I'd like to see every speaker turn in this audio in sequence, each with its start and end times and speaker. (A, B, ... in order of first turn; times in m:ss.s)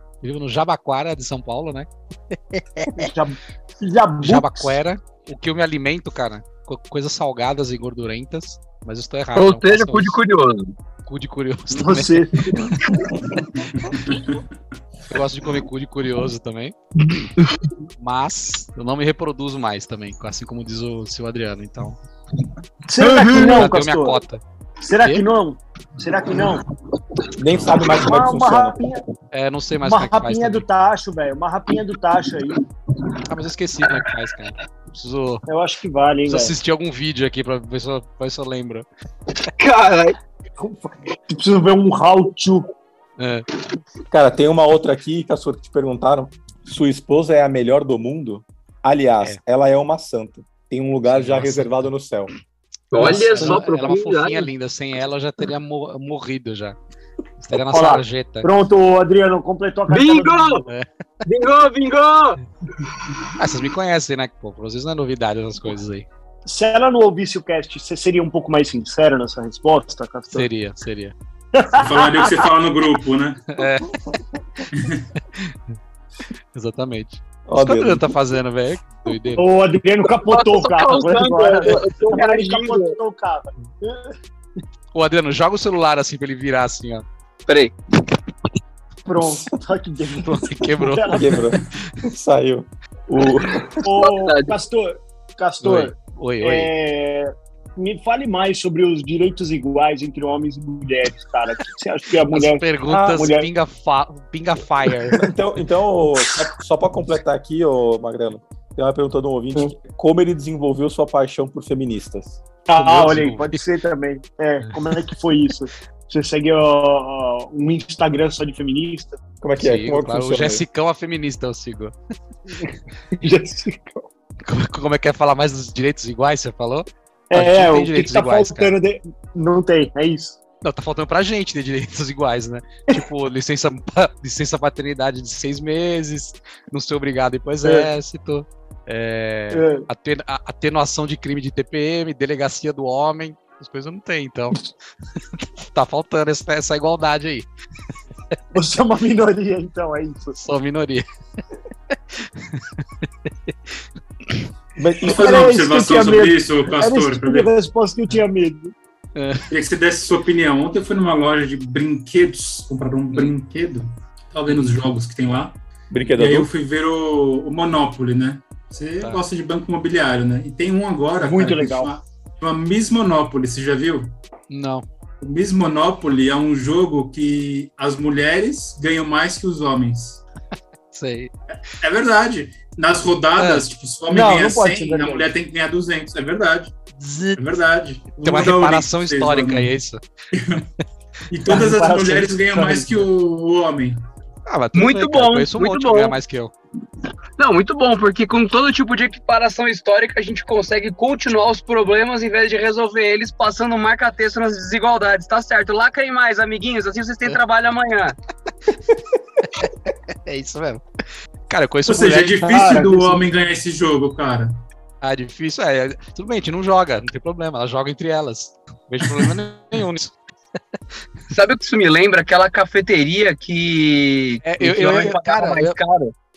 0:00.2-0:03.1 A
0:02.9-0:04.8 B
0:04.2-0:10.2 A
0:09.3-0:10.7 C
0:11.0-0:12.7 A
0:11.7-0:13.3 B
0:13.7-0:14.4 D
0:15.1-0:16.7 A
0:18.0-0:22.0 A
0:22.8-0:24.2 B
0:23.0-0:23.7 C
0:23.3-0:24.4 A
0:24.8-0:26.6 B
0:27.4-0:28.8 E
0:27.9-0:29.0 B
0:29.3-0:30.6 A
0:29.8-0:32.6 B
0:33.2-0:35.4 A
0:35.5-0:36.5 B
0:36.2-0:38.8 A
0:39.6-0:40.2 C
0:40.6-0:42.7 B
0:43.2-0:43.4 A
0:44.1-0:52.3 E
0:51.0-0:51.9 A
0:52.9-0:54.5 C
0:53.0-0:56.8 A
0:53.0-0:53.6 B
0:57.4-0:58.5 A
0:57.7-1:00.7 B
0:59.9-1:00.6 C
1:01.2-1:03.2 C
1:03.3-1:06.0 A
1:06.4-1:10.5 B
1:10.3-1:11.1 A
1:11.5-1:12.4 B
1:11.8-1:13.6 D
1:13.5-1:14.2 A
1:14.7-1:15.0 D
1:15.3-1:15.7 A
1:16.5-1:19.4 A
1:17.5-1:18.1 E
1:19.4-1:24.2 B
1:20.2-1:23.0 C
1:24.9-1:27.0 A
1:27.5-1:27.7 C
1:29.0-1:31.4 B
1:29.2-1:29.5 E
1:30.2-1:32.0 A
1:31.1-1:33.8 E
1:33.8-1:43.5 B
1:33.9-1:34.5 C
1:35.6-1:36.7 A
1:42.3-1:45.2 A
1:42.9-1:43.2 E
1:45.1-1:52.4 E
1:52.7-1:59.2 B
1:52.8-1:53.6 A
1:59.4-2:00.6 E
1:59.6-2:01.9 A
2:02.6-2:04.1 B
2:04.4-2:08.7 A
2:07.3-2:10.4 B
2:10.6-2:24.6 A
2:19.5-2:19.9 B
2:25.4-2:27.5 A
2:28.5-2:30.4 B
2:30.3-2:31.1 A
2:31.9-2:34.5 A
2:34.8-2:35.4 E
2:35.0-2:37.5 D
2:35.0-2:38.7 B
2:39.2-2:39.5 A
2:39.5-2:54.1 D
2:44.5-2:44.8 A
2:45.9-2:46.5 E
2:51.2-2:51.9 B
2:54.5-2:54.8 A
2:55.2-3:00.2 D
3:00.9-3:01.3 A
3:01.7-3:06.8 D
3:03.4-3:03.6 A
3:04.1-3:05.3 B
3:07.0-3:07.4 A
3:07.4-3:09.7 D
3:08.2-3:10.0 A
3:10.3-3:10.6 D
3:11.3-3:14.0 D
3:11.4-3:13.0 B
3:14.5-3:16.5 A
3:14.7-3:16.2 C
3:17.4-3:28.2 C
3:29.4-3:30.8 A
3:31.5-3:32.5 A
3:31.9-3:34.5 D
3:32.4-3:33.2 B
3:35.0-3:40.2 A
3:41.3-3:46.1 C
3:44.4-3:45.8 A